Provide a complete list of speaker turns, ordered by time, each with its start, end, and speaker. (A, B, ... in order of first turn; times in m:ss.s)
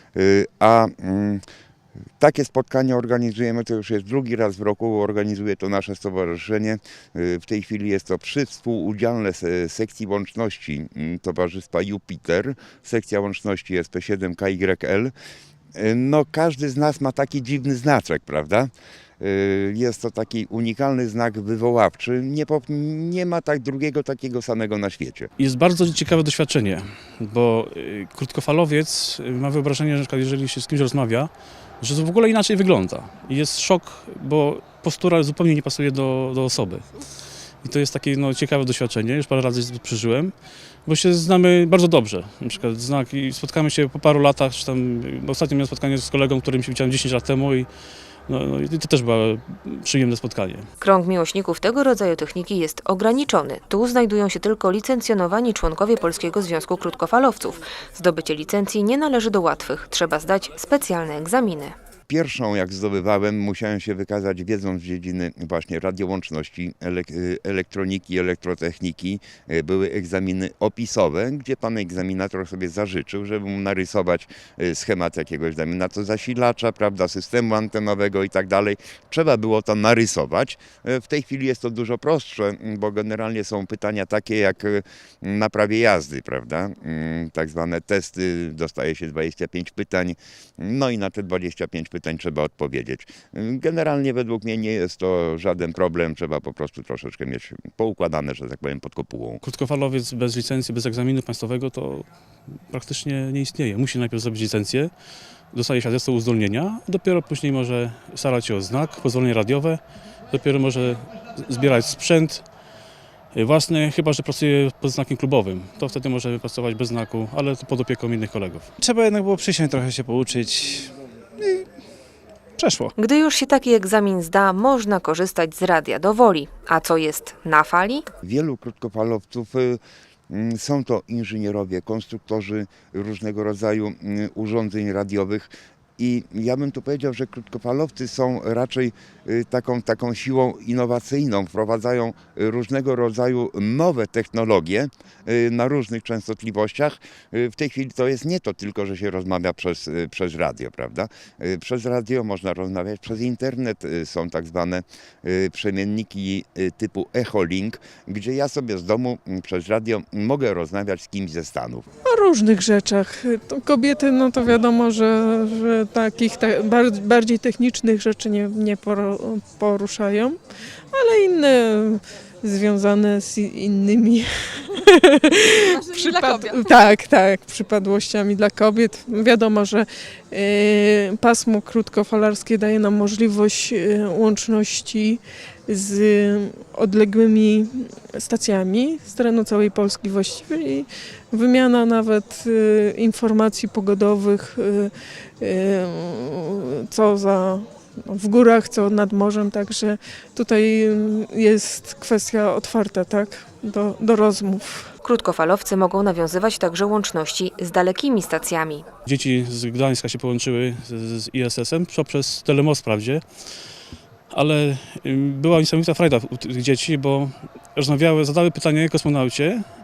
0:00.2-0:01.4 A
0:02.2-0:15.1 A
0:15.8-0:25.3 A
0:25.4-0:36.8 B
0:37.6-0:40.3 B
0:40.9-0:47.7 B
0:48.3-0:50.7 B
0:50.8-1:01.8 C
1:02.1-1:39.4 A
1:39.4-1:42.1 B
1:42.7-1:44.9 B
1:45.5-1:52.4 B
1:53.3-1:58.7 B
1:58.8-2:01.6 D
2:02.6-2:02.9 D
2:03.0-2:08.1 C
2:08.2-2:41.9 A
2:42.0-2:50.4 E
2:50.9-3:24.9 E
3:25.0-3:28.9 C
3:29.0-3:33.2 B
3:34.3-3:39.6 B